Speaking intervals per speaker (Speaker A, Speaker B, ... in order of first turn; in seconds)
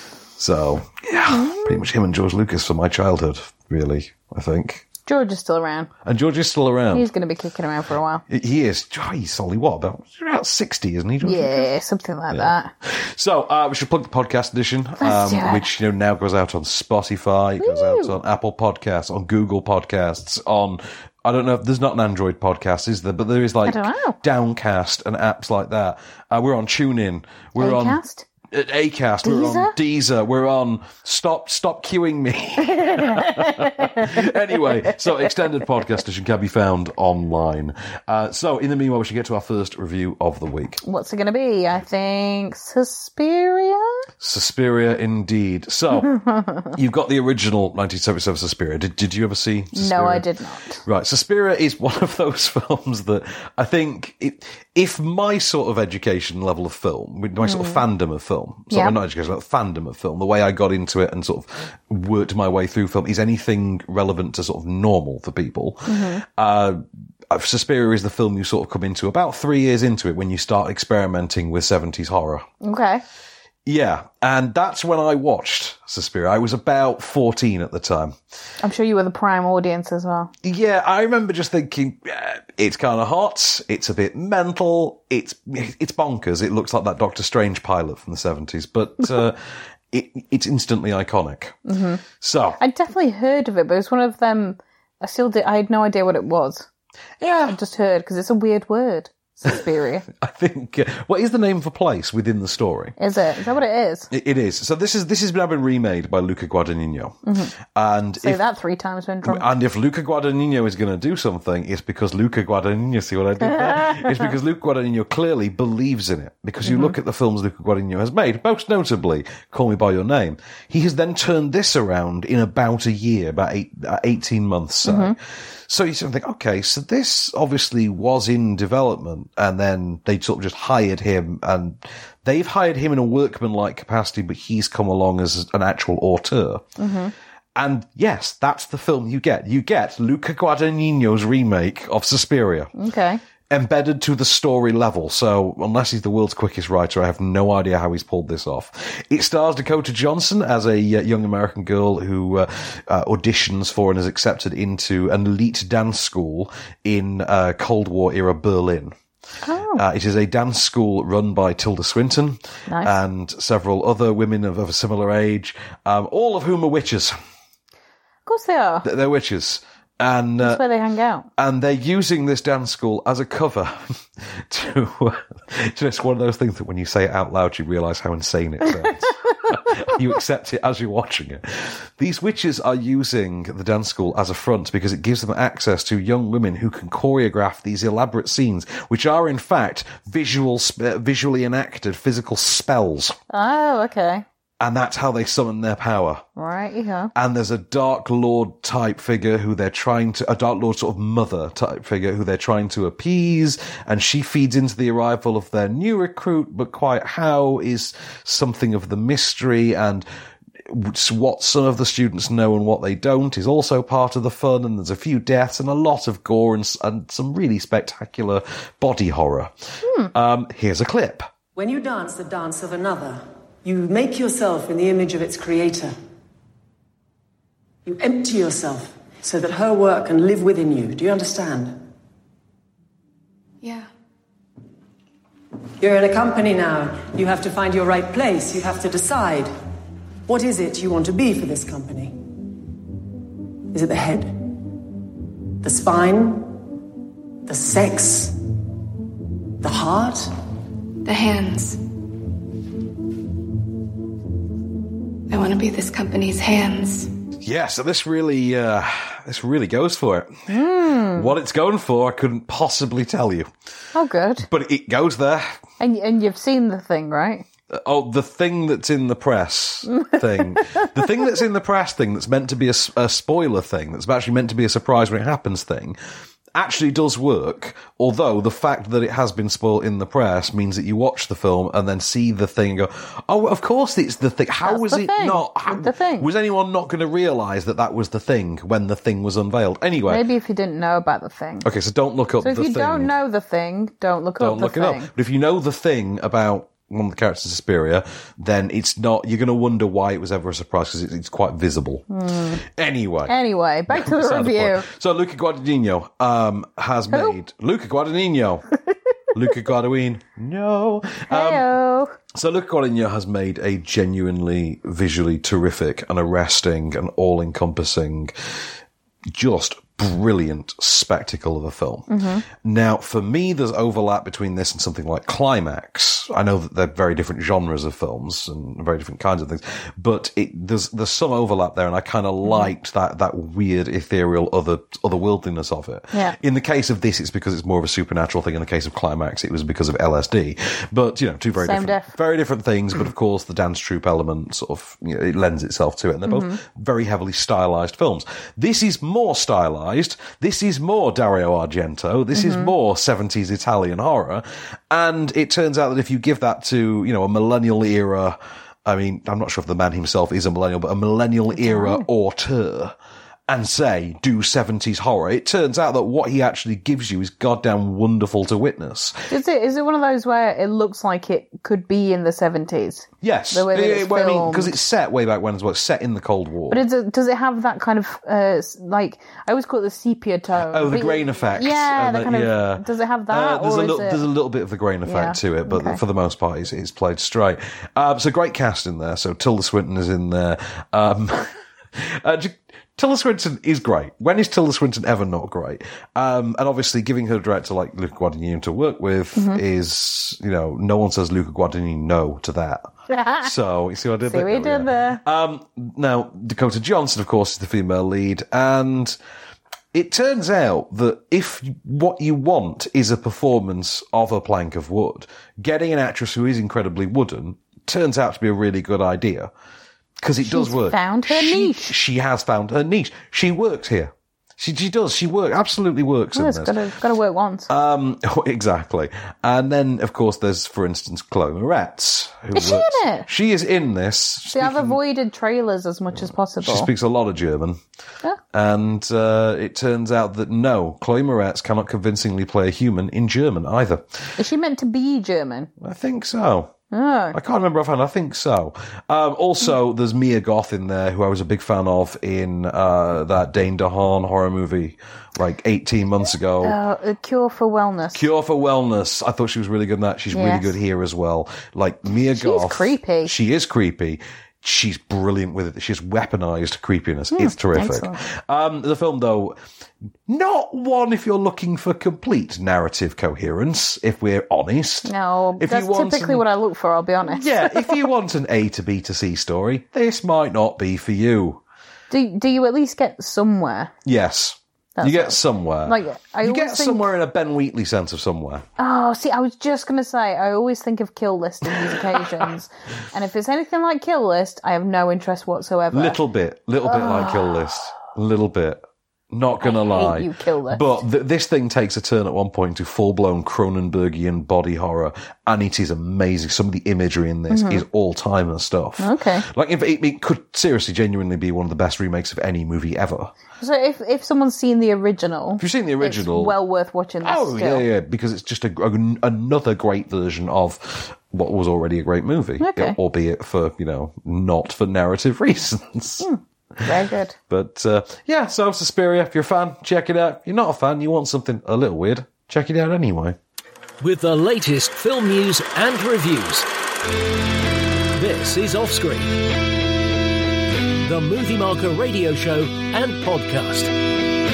Speaker A: 0.4-4.8, 6.0-7.1, 8.3-11.8, 12.3-28.0, 28.5-40.8, 44.2-46.1, 46.7-50.2, 50.9-72.5, 73.7-78.2, 80.4-89.4, 89.9-91.6, 92.2-92.6, 97.2-97.6, 100.1-103.0, 104.1-108.4, 109.2-125.2, 125.7-136.7, 137.6-142.7, 143.5-158.9, 159.8-167.2, 168.8-170.6, 171.4-193.2, 194.6-196.2, 197.2-210.1, 210.7-219.5, 220.1-221.3, 257.4-263.5, 264.4-265.6, 267.7-275.9, 276.5-290.2, 291.6-293.1, 294.4-302.1, 302.7-303.3, 303.9-308.7, 309.3-311.7, 312.3-318.3, 319.3-362.9, 363.5-369.3, 373.2-376.8, 380.7-402.9, 403.4-409.2, 409.9-419.5, 420.2-426.8, 427.7-435.0, 436.2-437.8, 438.5-444.3, 445.8-446.7, 447.3-456.8, 458.1-469.6, 470.3-476.4, 477.3-481.6, 484.1-488.6, 495.9-513.3, 515.6-516.6, 517.2-526.3, 527.5-533.4
Speaker B: 1.3-1.8, 5.1-5.9, 6.9-8.2, 11.2-12.7, 15.0-15.7, 17.6-18.1, 23.7-24.2, 27.6-28.3, 29.2-29.7, 32.7-34.2, 40.8-44.0, 46.1-46.7, 49.8-50.8, 57.4-57.8, 58.7-59.0, 65.9-66.2, 72.6-73.0, 78.6-80.3, 91.7-92.0, 92.6-96.7, 97.5-100.1, 103.0-104.1, 107.2-107.5, 108.2-109.5, 113.4-114.3, 116.7-116.9, 124.8-125.2, 136.8-137.1, 142.8-143.2, 159.4-159.8, 162.7-162.9, 168.2-168.9, 170.4-171.3, 193.3-194.2, 196.3-197.1, 219.8-220.1, 260.5-261.3, 263.9-264.5, 265.8-267.4, 269.9-270.9, 284.6-286.3, 290.1-291.7, 292.4-295.1, 302.1-302.6, 303.3-304.9, 311.3-312.1, 322.1-322.4, 332.4-332.7, 341.6-342.2, 346.3-346.6, 352.3-352.7, 361.6-362.1, 369.3-374.7, 376.7-384.2, 385.1-386.0, 399.4-399.6, 403.1-403.5, 404.3-405.2, 420.4-421.9, 426.3-427.7, 432.5-433.3, 434.5-436.9, 444.4-445.7, 446.9-447.4, 456.6-458.2, 460.3-460.8, 462.3-463.3, 467.3-468.2, 475.1-478.0, 482.1-483.9, 485.0-487.1, 488.8-496.2, 496.8-497.7, 499.6-500.9, 507.5-507.8, 509.0-509.4, 513.6-517.9, 522.6-523.0, 526.2-527.4
Speaker C: 221.6-225.9, 227.8-231.8, 235.8-239.5, 240.3-242.2, 243.7-244.3, 245.6-246.5, 247.5-248.4, 249.6-250.3
Speaker D: 233.6-233.9, 251.1-251.8, 255.3-257.1
Speaker E: 534.0-536.7, 538.1-539.5, 541.0-543.9